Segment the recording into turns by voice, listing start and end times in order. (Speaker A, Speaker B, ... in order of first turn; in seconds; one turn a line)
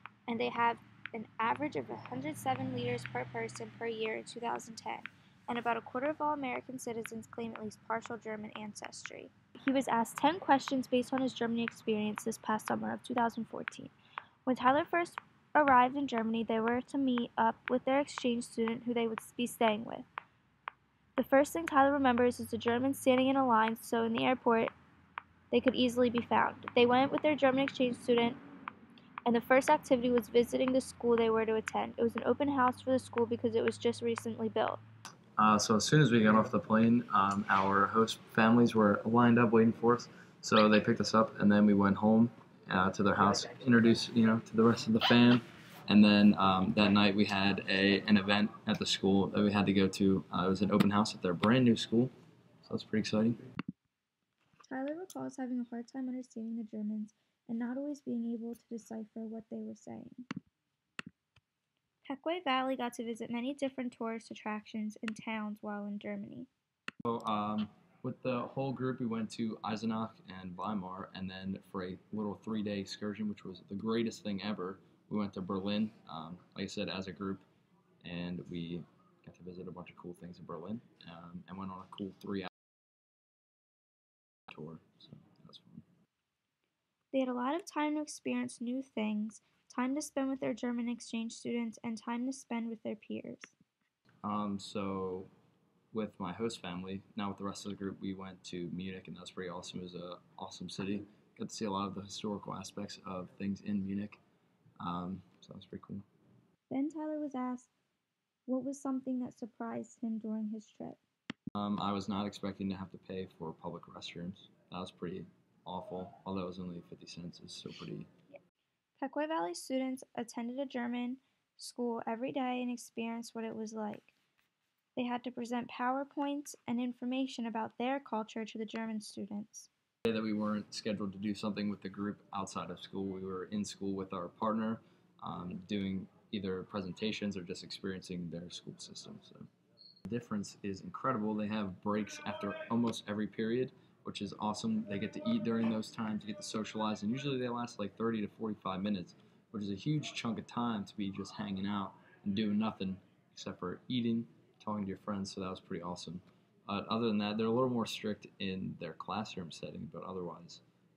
Speaker A: 0.3-13.9
Speaker A: 14.4-20.1
Speaker A: 21.2-24.7
Speaker A: 25.5-28.4
Speaker A: 29.3-34.8
Speaker B: 35.4-53.4
Speaker A: 54.7-60.3
Speaker A: 62.0-66.5
Speaker B: 67.1-77.5
Speaker B: 78.0-82.5
Speaker B: 84.5-85.8
Speaker A: 87.1-93.5
Speaker B: 94.2-95.3
Speaker B: 95.9-104.2
Speaker B: 104.8-106.0
Speaker A: 106.7-107.7
Speaker A: 108.5-111.0
Speaker B: 111.5-118.1
Speaker A: 119.0-124.1
Speaker A: 125.0-129.7
Speaker B: 130.1-139.5
Speaker B: 140.1-160.6